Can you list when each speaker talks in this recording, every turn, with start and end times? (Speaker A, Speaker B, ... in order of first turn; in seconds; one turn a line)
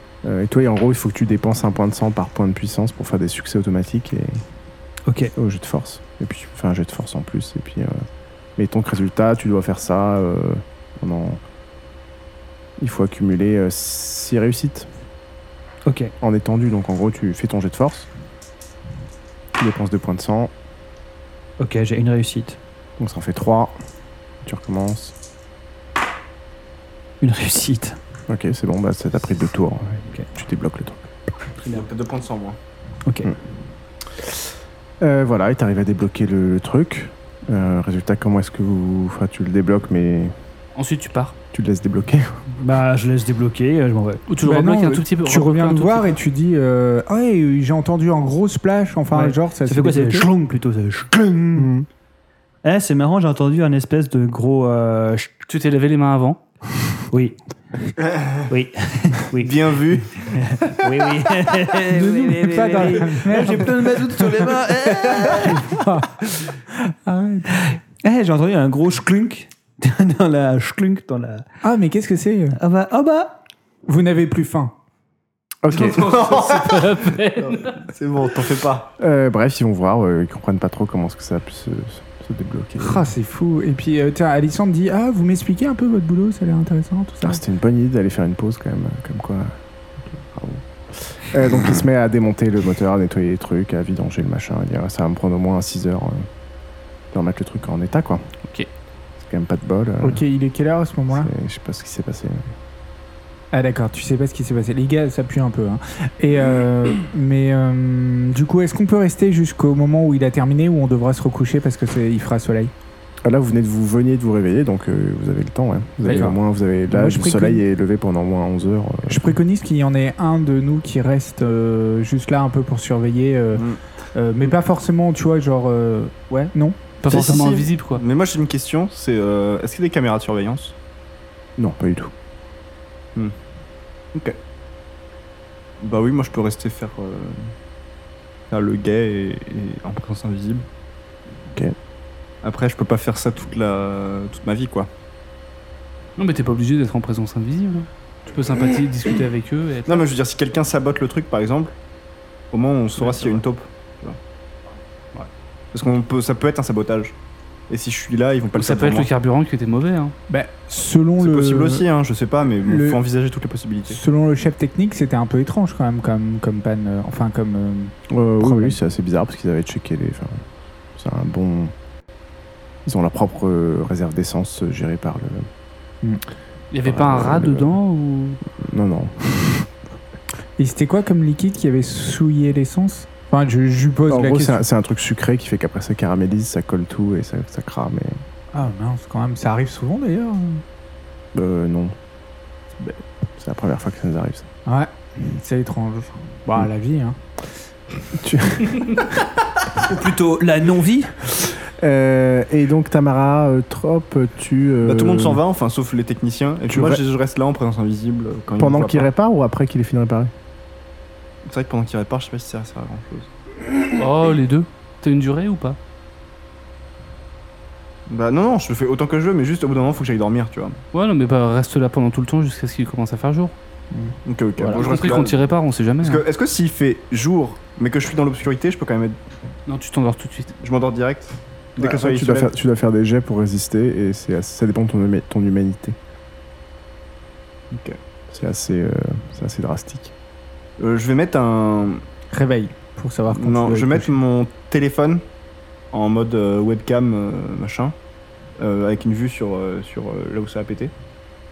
Speaker A: 0.2-4.4
Speaker B: 5.1-5.3
Speaker A: 5.4-8.1
Speaker A: 8.6-11.4
Speaker A: 12.8-14.9
Speaker B: 15.8-16.1
Speaker A: 16.2-18.1
Speaker A: 19.6-20.5
Speaker B: 21.6-22.6
Speaker A: 23.0-23.8
Speaker A: 24.4-25.2
Speaker B: 27.2-28.0
Speaker A: 28.3-31.1
Speaker C: 31.6-32.6
Speaker B: 33.0-33.3
Speaker A: 34.1-34.5
Speaker A: 35.0-40.4
Speaker D: 40.8-41.4
Speaker A: 41.5-42.4
Speaker B: 42.6-44.2
Speaker D: 44.3-46.2
Speaker E: 44.4-50.3
Speaker B: 49.1-51.7
Speaker A: 51.6-51.9
Speaker B: 52.6-55.3
Speaker D: 55.5-56.4
Speaker B: 57.1-57.4
Speaker C: 58.0-58.5
Speaker B: 58.5-65.9
Speaker C: 59.4-60.4
Speaker E: 61.9-67.6
Speaker B: 67.5-71.5
Speaker E: 71.6-72.6
Speaker B: 72.5-73.3
Speaker E: 73.9-74.7
Speaker A: 75.6-76.2
Speaker D: 75.7-77.9
Speaker C: 75.8-78.9
Speaker A: 79.0-83.1
Speaker E: 82.8-87.4
Speaker A: 87.2-96.3
Speaker A: 97.1-98.3
Speaker A: 99.2-100.2
Speaker E: 100.0-101.3
Speaker A: 101.1-102.5
Speaker E: 103.5-112.7
Speaker A: 113.2-119.3
Speaker E: 116.0-116.4
Speaker E: 116.9-117.6
Speaker E: 119.1-126.8
Speaker C: 123.5-123.8
Speaker D: 127.0-128.0
Speaker C: 127.1-130.8
Speaker A: 131.6-132.1
Speaker C: 134.1-134.4
Speaker C: 135.8-137.5
Speaker C: 138.5-140.7
Speaker C: 142.4-144.9
Speaker D: 146.2-150.1
Speaker C: 149.9-151.8
Speaker C: 152.5-154.2
Speaker D: 153.0-153.4
Speaker C: 155.7-157.2
Speaker C: 157.7-159.1
Speaker D: 158.6-160.2
Speaker E: 160.3-161.9
Speaker C: 161.2-164.0
Speaker E: 162.6-163.0
Speaker E: 163.9-168.8
Speaker A: 168.1-170.4
Speaker A: 171.0-171.7
Speaker A: 172.9-175.5
Speaker D: 176.7-178.4
Speaker A: 176.8-177.7
Speaker A: 178.6-179.7
Speaker E: 180.6-184.7
Speaker A: 184.1-188.2
Speaker E: 188.5-190.6
Speaker A: 191.3-192.0
Speaker A: 192.8-194.5
Speaker E: 194.7-197.2
Speaker A: 198.2-199.1
Speaker B: 199.7-201.2
Speaker A: 201.4-205.4
Speaker C: 204.8-209.1
Speaker A: 206.7-207.0
Speaker A: 208.6-210.3
Speaker C: 211.4-213.3
Speaker D: 213.9-215.8
Speaker C: 218.1-220.8
Speaker D: 220.9-223.6
Speaker E: 223.9-224.9
Speaker C: 224.3-225.5
Speaker D: 224.7-226.2
Speaker C: 226.0-229.2
Speaker D: 229.7-230.6
Speaker C: 230.6-232.5
Speaker A: 231.8-236.0
Speaker C: 237.7-238.0
Speaker A: 238.3-240.1
Speaker C: 240.8-242.0
Speaker E: 242.3-244.2
Speaker C: 243.3-245.2
Speaker C: 245.9-248.0
Speaker C: 248.6-250.9